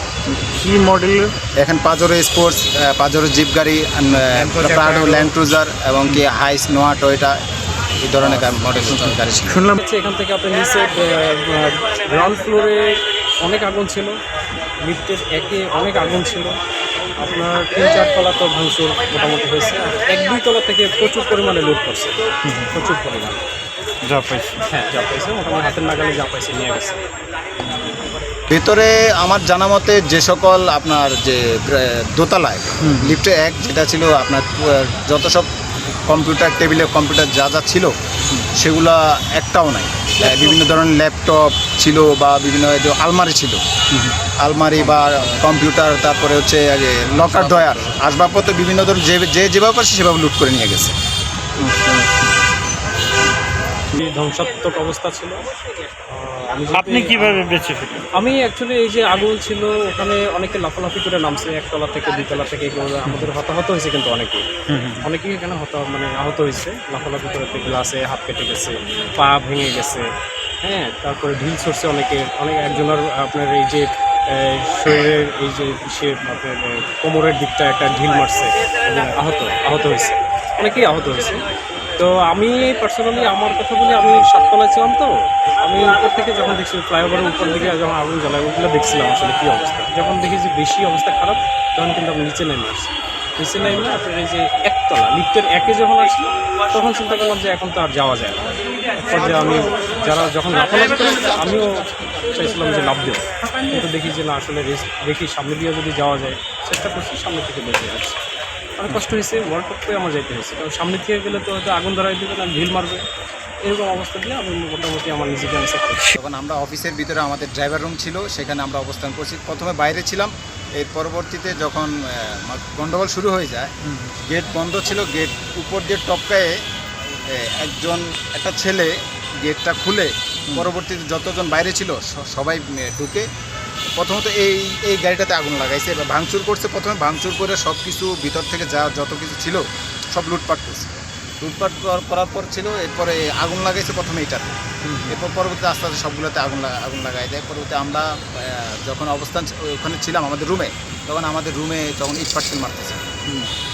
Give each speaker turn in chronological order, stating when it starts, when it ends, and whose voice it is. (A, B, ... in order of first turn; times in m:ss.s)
0:00.3-0:01.3 A
0:01.6-0:07.4 B
0:04.1-0:05.3 A
0:08.0-0:09.6 B
0:08.2-0:09.8 A
0:09.8-0:14.2 C
0:14.8-0:16.6 C
0:17.2-0:23.4 C
0:22.4-0:22.7 A
0:24.0-0:24.6 A
0:24.7-0:27.0 C
0:28.5-0:35.5 B
0:32.8-0:33.2 A
0:36.0-0:37.9 B
0:38.5-0:43.6 B
0:44.4-0:51.0 B
0:44.8-0:45.3 A
0:53.9-0:55.5 C
0:56.1-0:57.4 C
0:56.7-0:58.1 A
0:58.1-1:04.4 C
1:03.0-1:03.3 A
1:04.7-1:05.1 A
1:05.0-1:10.0 C
1:10.6-1:21.4 C
1:22.0-1:38.5 C
1:39.0-1:41.7 C
1:42.3-1:48.2 C
1:48.8-1:53.0 C
1:53.6-1:56.2 C
1:56.2-2:03.7 B
2:03.8-2:04.2 A
2:04.3-2:06.5 B
2:07.2-2:13.3 B
2:13.9-2:33.1 B
2:24.8-2:25.2 A